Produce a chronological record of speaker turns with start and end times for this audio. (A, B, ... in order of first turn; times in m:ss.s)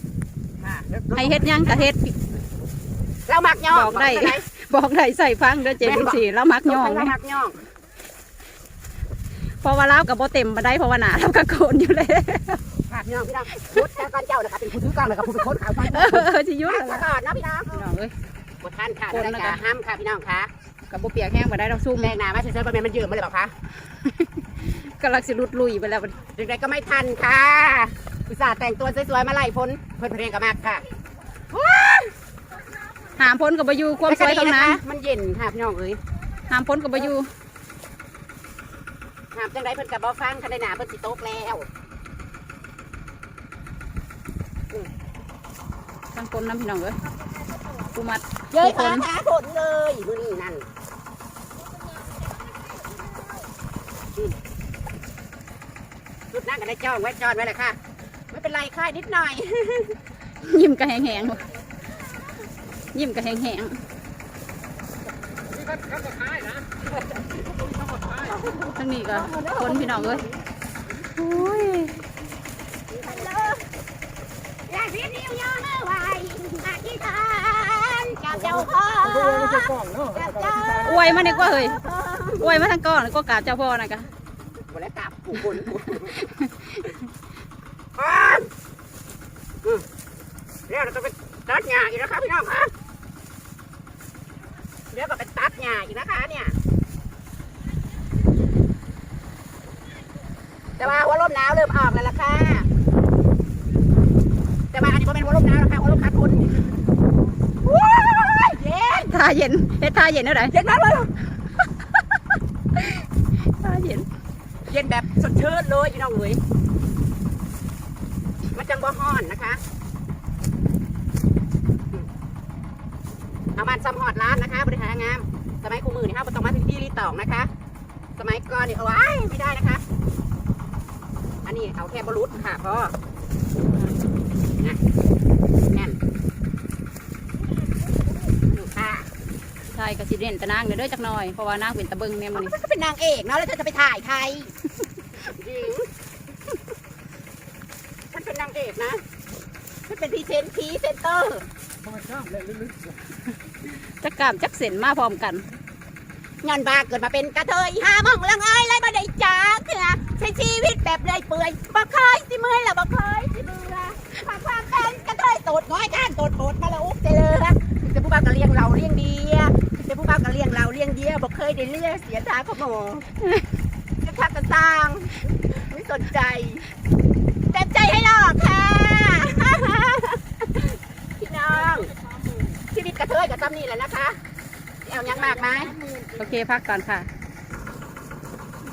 0:00.6-0:01.9 A
0:01.2-0:02.4 B
0:03.2-0:04.4 A
0:03.7-0:07.1 B
0:05.7-0:07.6 A
0:09.6-0:12.6 B
0:12.9-0:17.8 A
0:15.9-0:17.0 B
0:17.7-0:18.1 B
0:18.6-0:20.5 A
0:19.1-0:19.6 B
0:20.9-0:22.2 B
0:22.0-0:23.5 A
0:23.9-0:26.2 B
0:26.4-0:30.8 A
0:31.5-0:32.1 A
0:33.2-0:34.8 B
0:34.0-0:36.0 A
0:36.5-0:37.3 B
0:39.3-0:41.7 A
0:46.1-0:47.0 B
0:47.8-0:49.1 B
0:48.5-0:50.7 A
0:51.8-0:53.5 C
0:56.3-0:57.8 A
0:58.3-1:00.0 A
1:00.4-1:01.5 B
1:02.9-1:03.8 B
1:05.6-1:06.7 C
1:06.8-1:07.4 A
1:08.0-1:10.4 A
1:08.8-1:10.2 B
1:11.2-1:12.0 B
1:12.9-1:13.7 A
1:14.7-1:22.7 A
1:20.8-1:21.8 B
1:22.4-1:24.1 B
1:24.7-1:26.3 A
1:28.0-1:28.5 A
1:30.7-1:32.7 A
1:34.9-1:36.6 A
1:40.8-1:42.7 A
1:44.7-1:46.6 A
1:47.6-1:49.1 A
1:49.1-1:50.5 B
1:50.5-1:51.1 A
1:52.8-1:54.1 B
1:54.7-1:56.4 A
1:58.6-1:59.6 A
2:03.6-2:07.5 A
2:08.2-2:09.8 A
2:11.4-2:12.9 A
2:13.7-2:14.0 B
2:15.7-2:16.0 A
2:18.2-2:19.1 A
2:19.7-2:22.5 B
2:22.3-2:24.5 A
2:25.2-2:25.9 A
2:28.1-2:29.0 A
2:29.9-2:31.5 A
2:31.8-2:33.0 C
2:33.7-2:35.4 B
2:36.4-2:53.1 A
2:54.0-2:56.7 A
2:57.5-3:02.0 A
3:02.7-3:04.2 A
3:04.8-3:05.8 A
3:06.2-3:07.1 B